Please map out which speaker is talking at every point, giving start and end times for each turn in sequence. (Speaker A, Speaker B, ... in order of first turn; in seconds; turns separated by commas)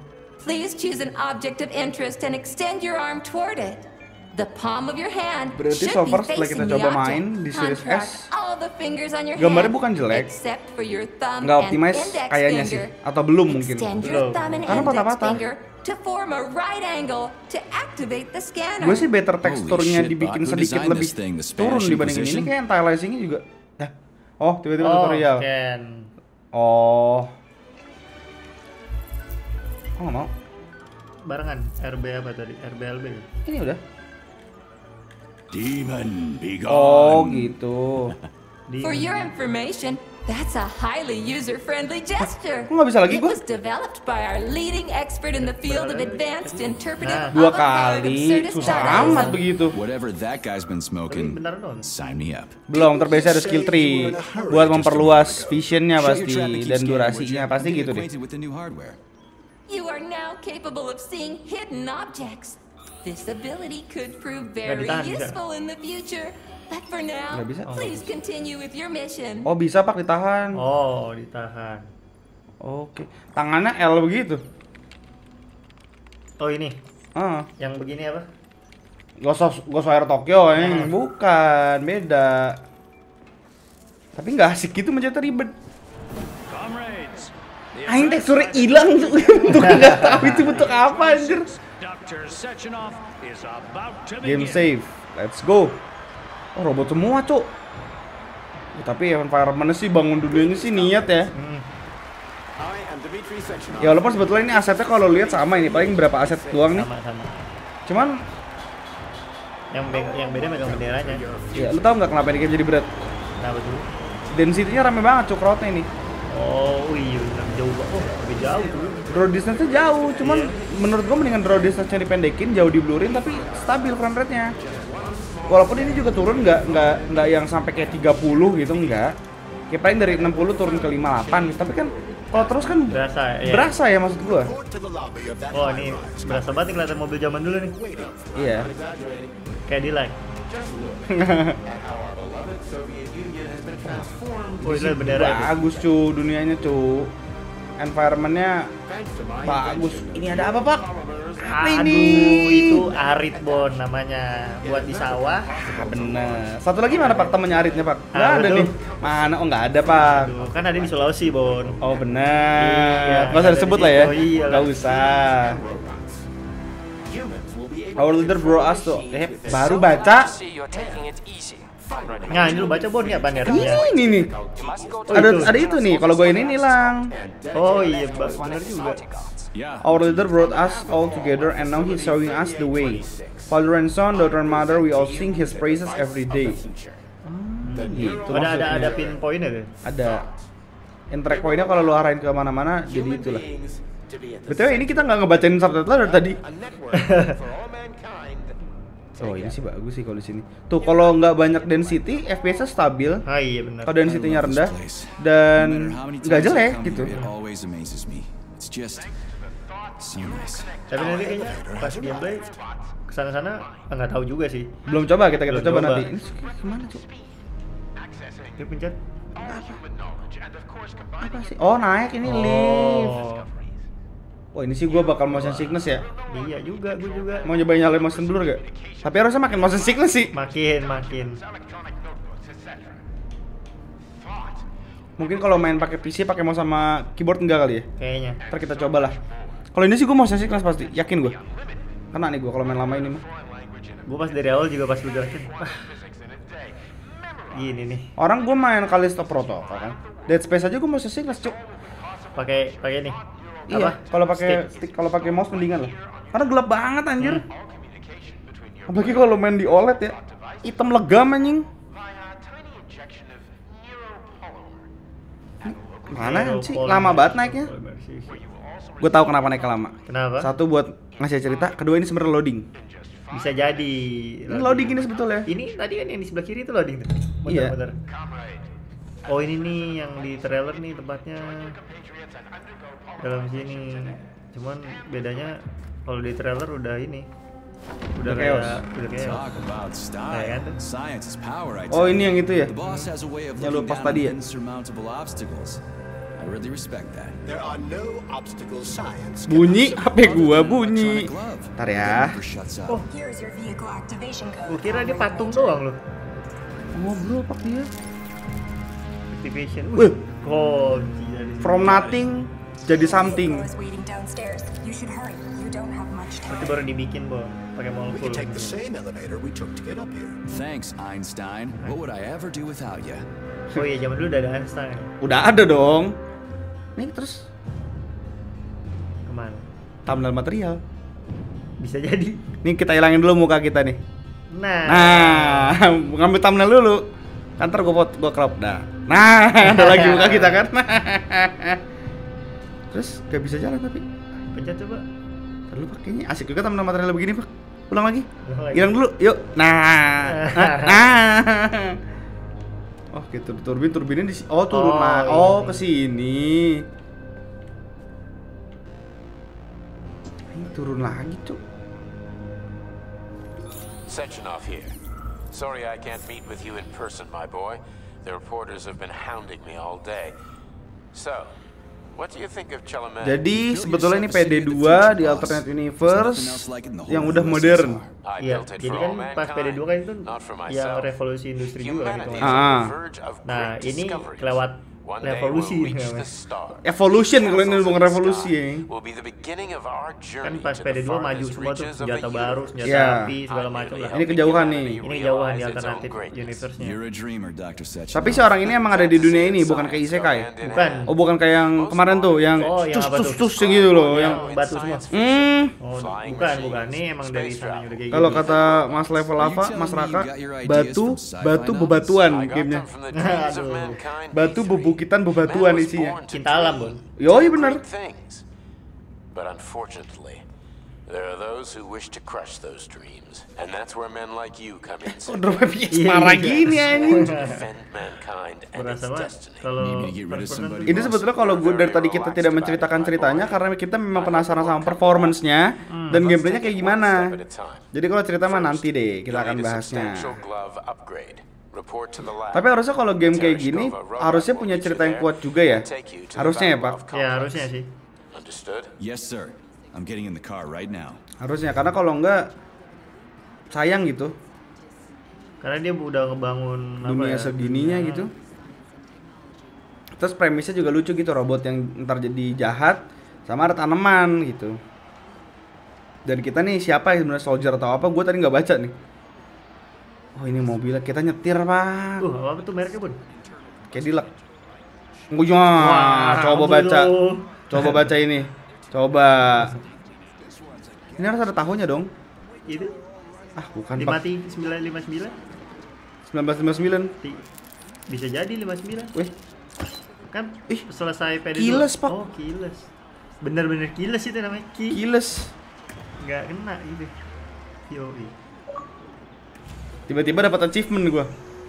Speaker A: 0.4-12.9, Speaker B: 5.5-8.3, Speaker B: 9.4-10.3, Speaker B: 11.4-14.0, Speaker A: 13.4-19.1, Speaker C: 14.0-14.9, Speaker B: 14.7-15.4, Speaker B: 18.8-25.4, Speaker D: 19.4-22.5, Speaker C: 24.8-26.1, Speaker B: 26.5-27.3, Speaker B: 30.0-30.3, Speaker C: 31.2-33.2, Speaker B: 33.5-33.8, Speaker D: 35.5-37.5, Speaker B: 36.6-38.1, Speaker C: 38.7-39.3, Speaker A: 38.8-49.4, Speaker B: 42.7-43.4, Speaker C: 45.4-47.4, Speaker B: 47.3-49.8, Speaker C: 48.6-49.4, Speaker D: 49.7-52.6, Speaker C: 51.1-51.9, Speaker B: 52.7-58.1, Speaker E: 52.7-55.6, Speaker D: 54.8-55.3, Speaker D: 56.0-59.0, Speaker A: 59.7-69.5, Speaker C: 64.7-65.4, Speaker B: 67.3-68.0, Speaker B: 69.5-70.6, Speaker C: 70.5-71.8, Speaker B: 72.6-74.4, Speaker C: 76.4-76.8, Speaker B: 77.2-77.5, Speaker C: 77.6-78.2, Speaker B: 79.2-82.6, Speaker C: 80.6-80.9, Speaker B: 84.2-85.5, Speaker F: 86.5-94.7, Speaker B: 87.8-91.5, Speaker C: 89.4-90.7, Speaker B: 94.2-95.8, Speaker B: 96.5-97.5, Speaker B: 98.7-101.3, Speaker G: 100.5-100.9, Speaker C: 101.3-101.6, Speaker G: 102.6-106.3, Speaker B: 103.8-106.9, Speaker E: 103.9-104.2, Speaker C: 106.7-107.3, Speaker B: 107.9-108.2, Speaker C: 109.7-111.2, Speaker E: 109.9-111.7, Speaker B: 111.5-112.9, Speaker C: 113.4-113.8, Speaker B: 114.3-115.9, Speaker C: 116.3-119.0, Speaker E: 118.2-119.1, Speaker B: 119.1-124.5, Speaker C: 120.2-120.5, Speaker B: 125.5-129.1, Speaker G: 125.5-125.9, Speaker B: 129.7-134.5, Speaker C: 132.3-133.7, Speaker E: 134.1-138.7, Speaker C: 135.5-137.8, Speaker B: 138.3-138.7, Speaker G: 138.5-139.3, Speaker C: 139.7-140.2, Speaker G: 140.5-141.0, Speaker B: 141.1-141.6, Speaker G: 141.6-144.6, Speaker B: 144.6-147.1, Speaker C: 144.6-145.6, Speaker B: 147.8-148.7, Speaker G: 148.9-151.5, Speaker E: 149.3-150.3, Speaker B: 149.4-150.8, Speaker C: 151.5-155.6, Speaker B: 151.6-152.9, Speaker E: 154.8-156.6, Speaker B: 155.7-160.3, Speaker C: 158.1-158.7, Speaker E: 158.8-161.8, Speaker C: 159.9-161.7, Speaker G: 160.2-160.7, Speaker B: 161.8-165.6, Speaker C: 162.6-164.8, Speaker E: 164.2-166.2, Speaker G: 167.2-170.2, Speaker E: 167.3-170.2, Speaker B: 168.0-170.3, Speaker F: 169.5-172.6, Speaker E: 171.9-175.1, Speaker G: 171.9-175.0, Speaker C: 172.3-173.9, Speaker B: 173.4-174.3, Speaker F: 174.6-179.5, Speaker C: 175.1-175.6, Speaker B: 175.1-177.1, Speaker G: 177.3-178.8, Speaker C: 177.5-179.0, Speaker E: 177.7-178.9, Speaker D: 179.5-180.5, Speaker B: 179.8-186.6, Speaker G: 180.3-183.5, Speaker G: 184.1-187.0, Speaker B: 187.2-189.1, Speaker C: 187.6-189.7, Speaker E: 187.8-189.2, Speaker G: 187.8-189.2, Speaker B: 189.8-190.2, Speaker B: 191.1-193.4, Speaker G: 191.3-192.0, Speaker G: 192.9-195.4, Speaker B: 194.5-196.4, Speaker G: 196.0-198.6, Speaker E: 196.7-197.3, Speaker C: 196.9-197.3, Speaker G: 199.2-199.5, Speaker B: 199.2-203.2, Speaker G: 200.8-202.2, Speaker C: 203.2-204.0, Speaker B: 203.8-207.1, Speaker D: 204.0-209.1, Speaker D: 210.0-210.8, Speaker G: 210.2-211.6, Speaker E: 210.9-212.5, Speaker C: 210.9-212.4, Speaker G: 212.3-212.9, Speaker C: 213.1-214.7, Speaker B: 214.8-217.0, Speaker C: 215.4-216.1, Speaker G: 218.1-218.6, Speaker C: 218.6-219.0, Speaker B: 219.4-219.8, Speaker G: 219.5-221.3, Speaker B: 221.2-223.2, Speaker C: 222.2-223.4, Speaker B: 224.5-226.0, Speaker C: 225.3-227.5, Speaker B: 227.4-230.3, Speaker C: 230.3-231.4, Speaker B: 235.2-237.9, Speaker C: 238.0-238.4, Speaker B: 238.5-239.1, Speaker B: 239.7-241.4, Speaker B: 242.1-243.2, Speaker G: 243.5-244.0, Speaker C: 244.1-245.8, Speaker G: 245.8-246.7, Speaker C: 247.5-248.1, Speaker B: 248.2-251.6, Speaker C: 252.3-254.7, Speaker B: 253.7-257.4, Speaker G: 257.9-259.2, Speaker B: 258.9-261.7, Speaker G: 262.9-263.3, Speaker B: 265.6-267.7, Speaker C: 266.1-268.4, Speaker B: 269.0-272.7, Speaker C: 270.1-270.5, Speaker C: 273.3-277.9, Speaker B: 274.5-275.5, Speaker B: 277.4-277.7, Speaker C: 279.3-281.7, Speaker C: 283.2-287.3, Speaker C: 288.2-289.5, Speaker B: 288.2-288.8, Speaker D: 289.1-295.8, Speaker C: 290.3-290.8, Speaker B: 291.9-292.7, Speaker B: 293.6-294.4, Speaker D: 296.4-297.4, Speaker E: 297.4-300.2, Speaker B: 299.5-302.4, Speaker D: 300.1-303.0, Speaker H: 302.9-305.8, Speaker C: 304.6-306.0, Speaker B: 306.9-307.9, Speaker C: 309.3-312.0, Speaker B: 311.6-313.7, Speaker D: 311.8-312.2, Speaker H: 312.9-316.8, Speaker C: 316.5-318.8, Speaker E: 318.1-320.4, Speaker D: 320.5-323.2, Speaker C: 323.7-325.1, Speaker B: 325.2-326.1, Speaker B: 326.9-327.4, Speaker C: 329.3-329.6, Speaker B: 330.1-330.8, Speaker C: 331.8-332.4, Speaker B: 332.6-334.0, Speaker C: 334.5-335.8, Speaker B: 334.9-337.0, Speaker B: 337.6-341.8, Speaker C: 339.6-340.7, Speaker B: 342.9-344.0, Speaker C: 344.5-345.0, Speaker B: 345.7-352.0, Speaker C: 348.4-348.9, Speaker C: 350.3-351.0, Speaker B: 353.1-356.9, Speaker C: 354.7-355.8, Speaker B: 360.5-361.6, Speaker G: 364.1-365.0, Speaker G: 365.5-370.3, Speaker G: 371.1-371.6, Speaker G: 372.1-373.5, Speaker B: 373.2-378.0, Speaker D: 373.5-378.1, Speaker G: 378.1-381.2, Speaker C: 378.4-382.7, Speaker G: 381.7-396.6, Speaker B: 382.4-382.9, Speaker C: 383.4-386.3, Speaker B: 386.8-388.9, Speaker C: 390.4-397.0, Speaker B: 392.8-393.3, Speaker B: 394.1-395.0, Speaker D: 396.8-398.7, Speaker B: 398.1-400.5, Speaker G: 398.7-409.3, Speaker C: 400.6-401.1, Speaker B: 401.1-404.4, Speaker C: 402.6-403.4, Speaker C: 404.0-405.1, Speaker B: 405.1-405.7, Speaker C: 405.8-408.6, Speaker B: 408.1-412.9, Speaker D: 409.4-412.2, Speaker G: 412.2-418.4, Speaker C: 413.1-414.0, Speaker B: 414.3-416.2, Speaker C: 416.3-417.0, Speaker B: 417.2-417.8, Speaker G: 419.3-420.4, Speaker G: 421.1-429.7, Speaker B: 425.1-427.3, Speaker C: 425.9-427.6, Speaker C: 428.7-431.0, Speaker D: 429.8-431.3, Speaker B: 430.9-437.4, Speaker G: 431.3-433.6, Speaker G: 434.1-435.4, Speaker C: 435.9-436.2, Speaker G: 436.1-437.9, Speaker B: 437.9-440.4, Speaker G: 438.4-447.7, Speaker B: 442.5-447.0, Speaker C: 447.1-447.9, Speaker G: 448.3-448.9, Speaker D: 449.0-451.2, Speaker B: 451.4-452.5, Speaker B: 453.7-454.3, Speaker C: 455.6-458.3, Speaker B: 457.0-458.3, Speaker B: 460.2-464.8, Speaker B: 466.2-468.9, Speaker B: 470.3-472.2, Speaker C: 472.2-473.2, Speaker B: 473.9-474.3, Speaker B: 475.3-477.2, Speaker C: 475.8-478.1, Speaker B: 477.7-479.7, Speaker B: 481.1-482.1, Speaker C: 482.6-482.9, Speaker B: 483.6-484.2, Speaker C: 483.9-485.3, Speaker B: 486.2-487.1, Speaker C: 488.1-489.1, Speaker C: 490.3-492.9, Speaker B: 491.5-492.1, Speaker C: 493.4-495.0, Speaker B: 494.9-495.5, Speaker C: 496.2-497.1, Speaker C: 497.9-498.3, Speaker B: 500.1-501.3